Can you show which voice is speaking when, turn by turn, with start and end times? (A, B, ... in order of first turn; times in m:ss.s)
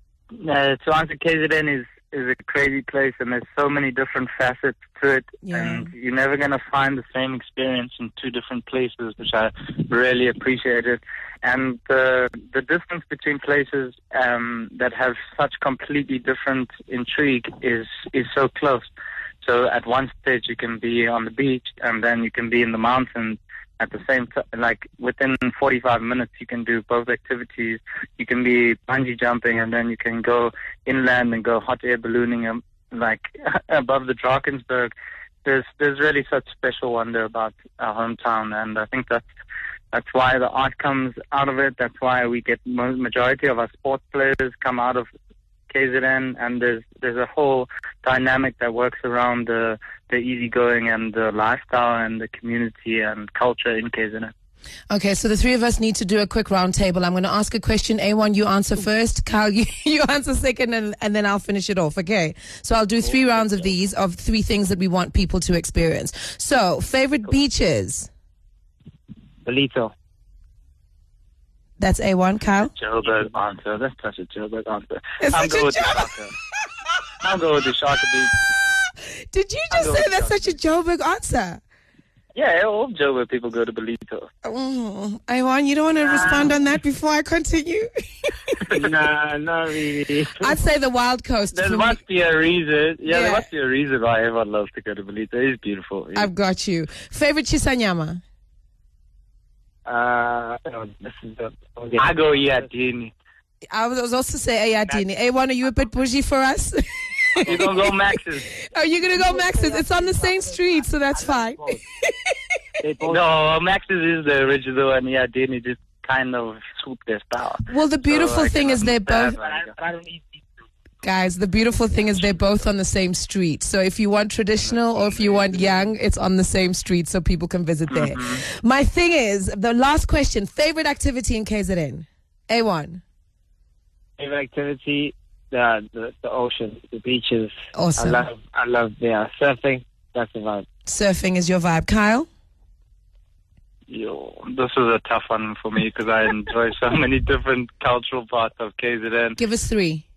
0:00.4-0:18.9 A
0:05.4-0:05.9 B
0:19.4-0:34.9 A
0:35.4-0:39.2 A
0:39.9-0:45.1 A
0:45.7-0:54.3 A
0:54.9-1:08.1 B
1:09.4-1:09.9 C
1:11.8-1:12.7 B
1:12.6-1:16.3 A
1:15.2-1:16.1 B
1:17.2-1:18.3 A
1:19.3-1:21.6 B
1:19.7-1:20.4 A
1:22.3-1:24.3 A
1:24.4-1:28.6 B
1:26.0-1:26.5 A
1:28.7-1:30.6 C
1:30.4-1:32.0 B
1:31.5-1:36.3 A
1:33.0-1:33.4 B
1:36.1-1:38.2 B
1:39.8-1:42.7 C
1:42.0-1:43.1 A
1:43.7-1:47.8 B
1:47.4-1:48.5 A
1:48.5-1:52.3 B
1:49.1-1:51.8 C
1:52.8-1:53.3 C
1:53.0-1:59.7 A
1:57.7-1:59.4 B
1:59.1-2:00.6 C
2:01.0-2:13.0 B
2:04.6-2:05.9 A
2:07.9-2:08.4 A
2:14.2-2:20.6 C
2:17.7-2:18.2 B
2:20.8-2:22.3 B
2:23.9-2:29.4 A
2:29.4-2:30.0 B